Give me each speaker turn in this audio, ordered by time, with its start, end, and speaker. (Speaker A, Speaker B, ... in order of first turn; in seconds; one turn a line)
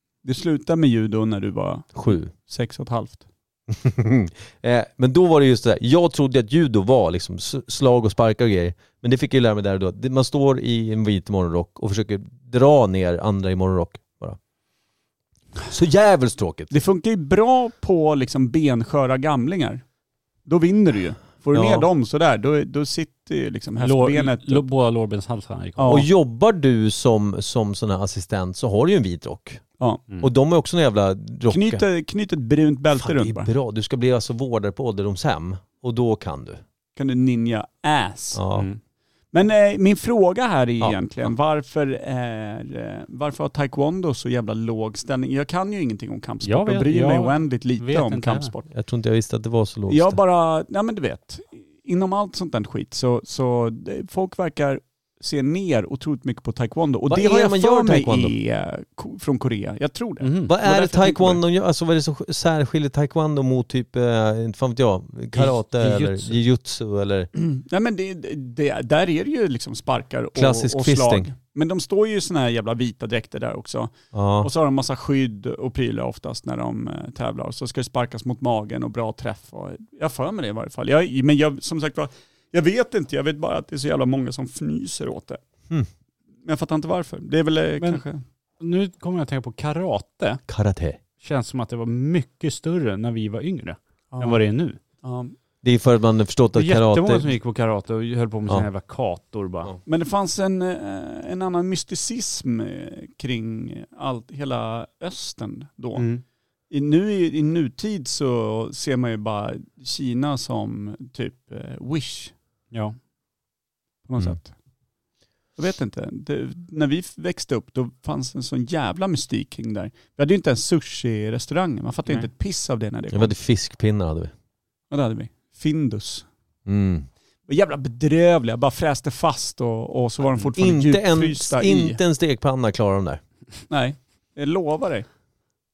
Speaker A: 0.2-3.2
Speaker B: 1.9-2.3
Speaker B: 3.7-14.4
Speaker B: 15.7-16.7
Speaker A: 16.7-19.8
Speaker A: 20.4-24.7
Speaker B: 21.5-21.9
Speaker C: 23.8-26.0
Speaker A: 25.8-26.1
Speaker B: 25.9-29.6
Speaker B: 30.2-31.8
Speaker A: 31.5-33.5
Speaker B: 33.0-36.6
Speaker A: 37.0-38.4
Speaker B: 38.3-38.7
Speaker A: 39.3-48.6
Speaker C: 46.4-48.5
Speaker B: 48.7-50.2
Speaker A: 49.9-61.4
Speaker B: 57.1-58.3
Speaker C: 60.2-60.5
Speaker B: 60.5-67.3
Speaker C: 65.3-66.4
Speaker A: 67.3-85.4
Speaker B: 70.3-71.3
Speaker B: 74.1-74.5
Speaker A: 86.5-88.2
Speaker C: 88.6-90.4
Speaker B: 90.5-91.0
Speaker C: 91.2-94.8
Speaker A: 94.1-94.4
Speaker A: 95.0-95.3
Speaker B: 95.6-97.3
Speaker C: 96.5-99.7
Speaker A: 99.8-106.0
Speaker C: 106.0-106.2
Speaker A: 106.7-112.3
Speaker C: 112.7-113.0
Speaker A: 114.1-114.5
Speaker A: 115.6-123.3
Speaker B: 123.1-124.3
Speaker A: 124.9-126.3
Speaker B: 126.7-127.1
Speaker A: 127.5-132.0
Speaker B: 130.6-133.2
Speaker A: 133.7-135.1